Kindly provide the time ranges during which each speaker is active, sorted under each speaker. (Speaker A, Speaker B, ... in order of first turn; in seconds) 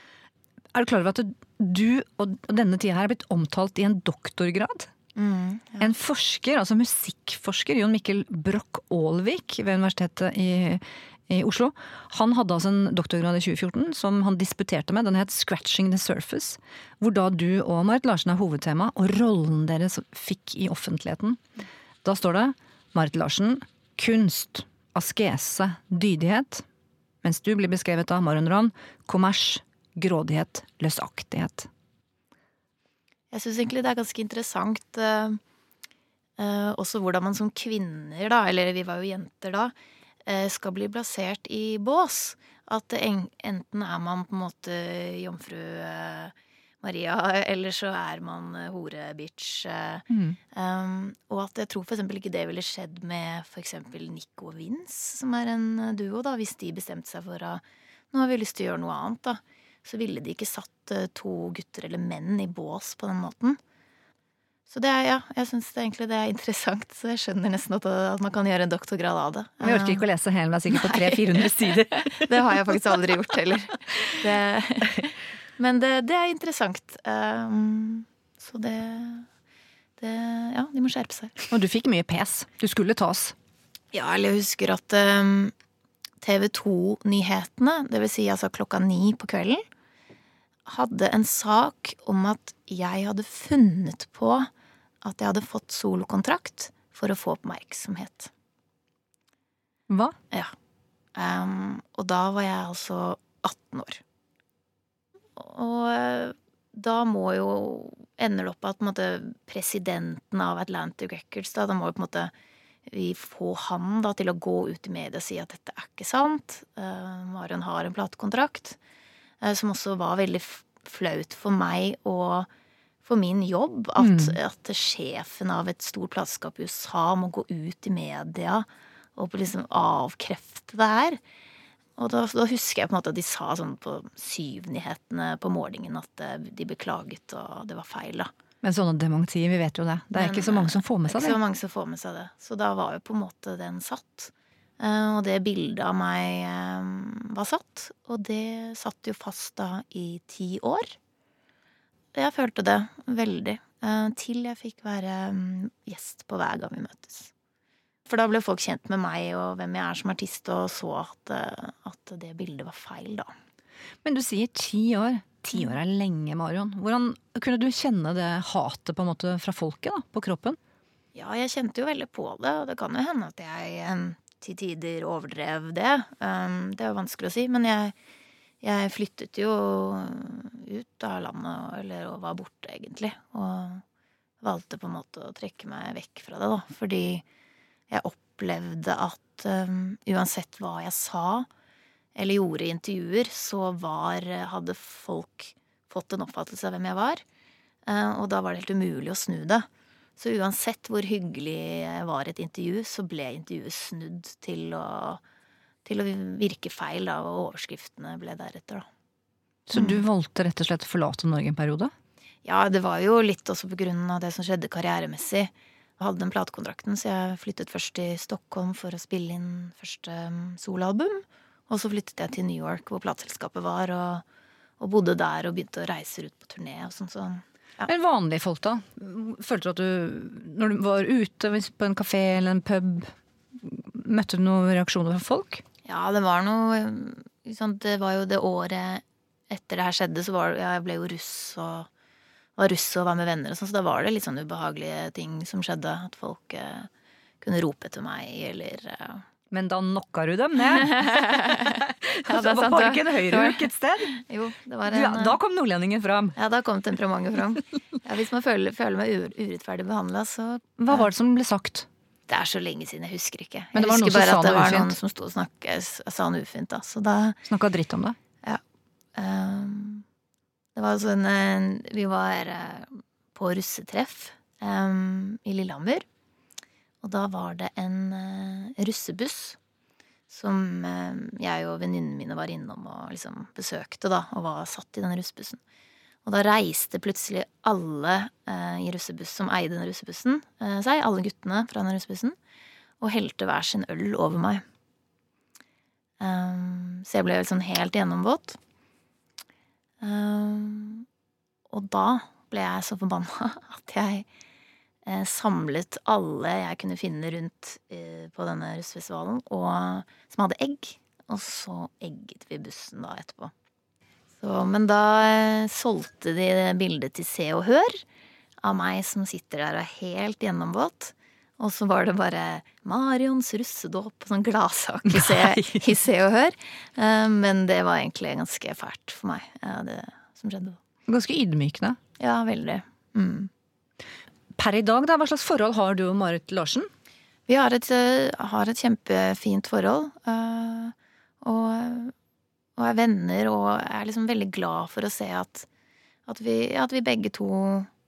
Speaker A: 0.7-4.9, 5.8-21.4, 22.0-26.6, 27.2-31.7, 50.1-50.4, 69.6-72.3, 81.5-83.3, 99.9-100.2, 124.0-124.3, 138.6-141.4, 164.0-170.6, 209.7-211.9, 227.8-235.6, 249.5-251.4, 252.0-254.2, 254.8-256.4, 260.8-261.9, 263.7-264.9, 267.5-268.2, 325.1-325.9, 331.1-332.0, 334.6-336.9
Speaker B: 5.1-5.9, 33.3-35.4, 36.4-39.7, 40.2-63.6, 64.7-70.0, 70.7-79.3, 80.0-81.5, 83.9-85.5, 86.2-89.6, 90.7-94.5, 95.0-98.3, 101.1-104.0, 105.4-112.3, 112.9-118.8, 119.4-122.5, 123.0-131.2, 132.0-138.3, 140.1-150.9, 152.1-157.3, 158.1-163.3, 171.1-177.9, 178.6-183.8, 184.4-187.2, 187.9-191.5, 192.1-197.2, 197.8-205.2, 205.8-208.9, 209.7-210.0, 212.4-224.2, 224.8-227.9, 235.8-241.9, 242.6-246.9, 247.4-249.2, 251.0-255.4, 256.4-261.1, 262.3-267.4, 269.1-270.0, 270.7-276.0, 277.0-279.6, 280.3-285.6, 286.2-292.4, 293.0-294.6, 296.2-298.6, 300.0-301.1, 301.7-304.2, 305.0-313.5, 314.4-318.0, 318.6-330.8, 332.2-333.5, 337.5-342.1, 342.8-345.7, 346.2-347.9